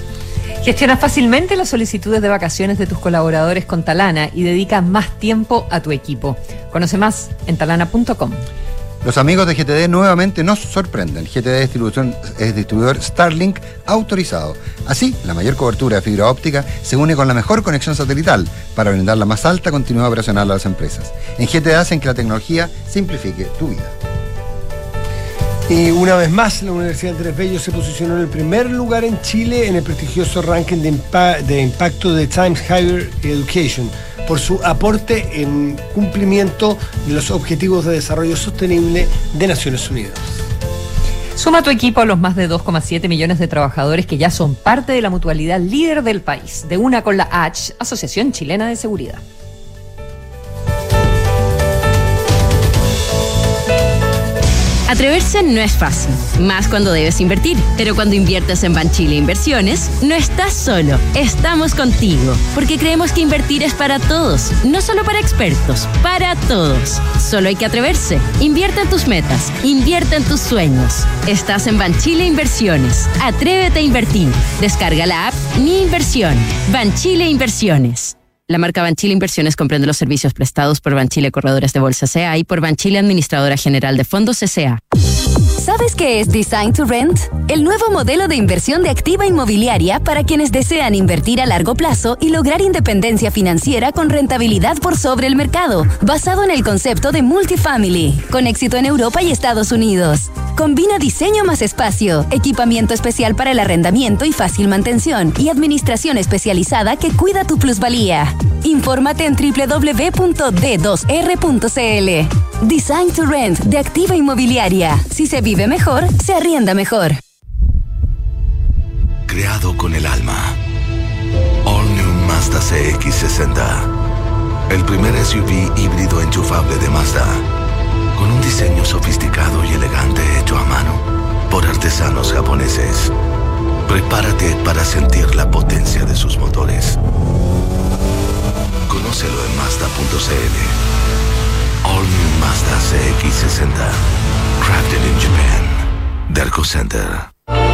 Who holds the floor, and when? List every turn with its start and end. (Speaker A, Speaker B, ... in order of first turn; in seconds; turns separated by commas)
Speaker A: 0.6-8.4, Speaker B: 9.0-23.9, Speaker C: 25.7-40.4, Speaker A: 41.4-49.2, Speaker D: 54.9-84.8, Speaker E: 85.6-117.2, Speaker F: 119.3-120.6, Speaker F: 121.6-123.9, Speaker F: 124.7-127.5, Speaker F: 128.2-133.1, Speaker F: 133.8-137.0, Speaker F: 138.9-140.8, Speaker F: 141.8-144.0, Speaker F: 144.6-147.3